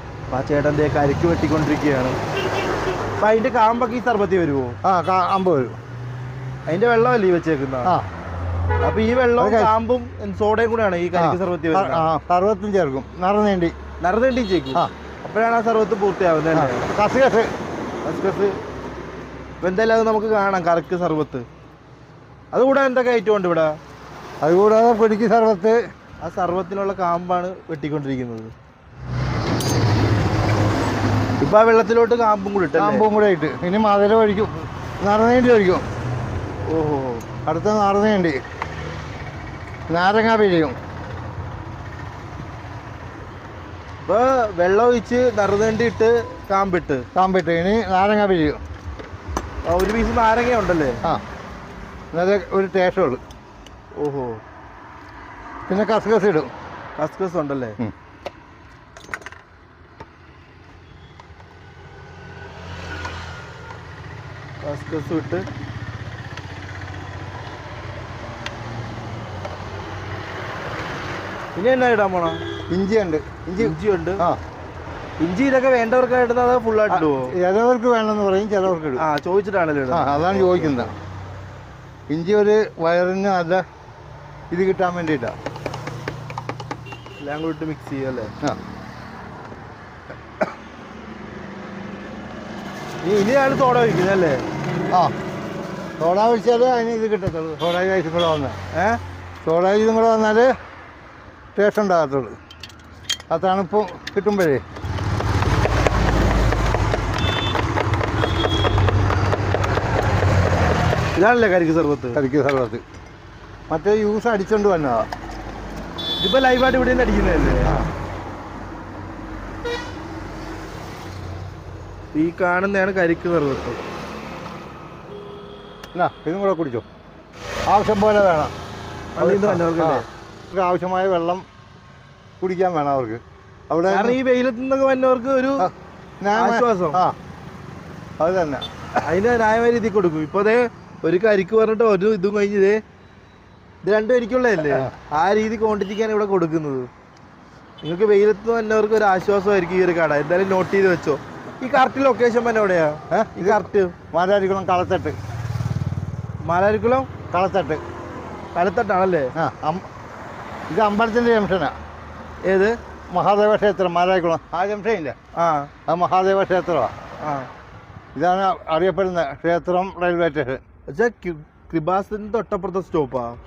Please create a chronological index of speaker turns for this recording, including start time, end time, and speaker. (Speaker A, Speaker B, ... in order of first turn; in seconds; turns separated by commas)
Speaker A: 0.3-2.2, Speaker A: 3.2-4.8, Speaker B: 4.8-5.8, Speaker A: 6.7-7.9, Speaker A: 8.8-12.1, Speaker B: 9.4-9.7, Speaker B: 11.2-13.7, Speaker A: 14.0-16.9, Speaker B: 16.5-17.5, Speaker A: 18.0-18.6, Speaker A: 19.6-21.5, Speaker A: 22.5-23.8, Speaker B: 24.4-25.8, Speaker A: 26.2-28.5, Speaker A: 31.4-33.0, Speaker B: 32.8-35.8, Speaker A: 36.7-37.2, Speaker B: 37.5-38.4, Speaker B: 39.9-40.8, Speaker A: 44.0-47.1, Speaker B: 47.1-48.6, Speaker A: 49.7-51.0, Speaker B: 52.1-53.2, Speaker A: 54.0-54.4, Speaker B: 55.7-56.5, Speaker A: 57.0-57.8, Speaker A: 64.6-65.5, Speaker A: 71.6-72.4, Speaker B: 72.7-74.4, Speaker A: 73.6-74.2, Speaker A: 75.2-77.3, Speaker B: 76.9-79.0, Speaker A: 79.0-81.0, Speaker B: 79.9-80.9, Speaker B: 82.1-83.6, Speaker B: 84.5-85.3, Speaker A: 87.2-88.3, Speaker A: 93.0-94.5, Speaker B: 96.0-98.6, Speaker B: 99.4-100.5, Speaker B: 101.6-102.4, Speaker B: 103.3-104.6, Speaker A: 111.2-112.2, Speaker B: 112.2-112.8, Speaker B: 113.7-115.1, Speaker A: 116.2-117.8, Speaker A: 122.1-123.8, Speaker B: 126.0-126.8, Speaker B: 127.7-128.5, Speaker A: 129.2-130.1, Speaker B: 129.2-131.4, Speaker B: 132.4-134.2, Speaker A: 133.9-135.7, Speaker B: 135.6-137.2, Speaker A: 136.3-137.0, Speaker B: 138.2-138.7, Speaker A: 139.0-142.8, Speaker A: 143.8-146.9, Speaker A: 147.8-153.9, Speaker B: 153.1-155.2, Speaker A: 156.4-157.1, Speaker B: 157.3-157.8, Speaker A: 158.6-159.3, Speaker B: 159.4-159.9, Speaker B: 160.7-161.8, Speaker A: 162.5-162.8, Speaker B: 163.1-165.2, Speaker A: 165.4-165.7, Speaker B: 165.9-166.9, Speaker A: 167.2-167.5, Speaker B: 168.2-170.6, Speaker A: 170.9-173.4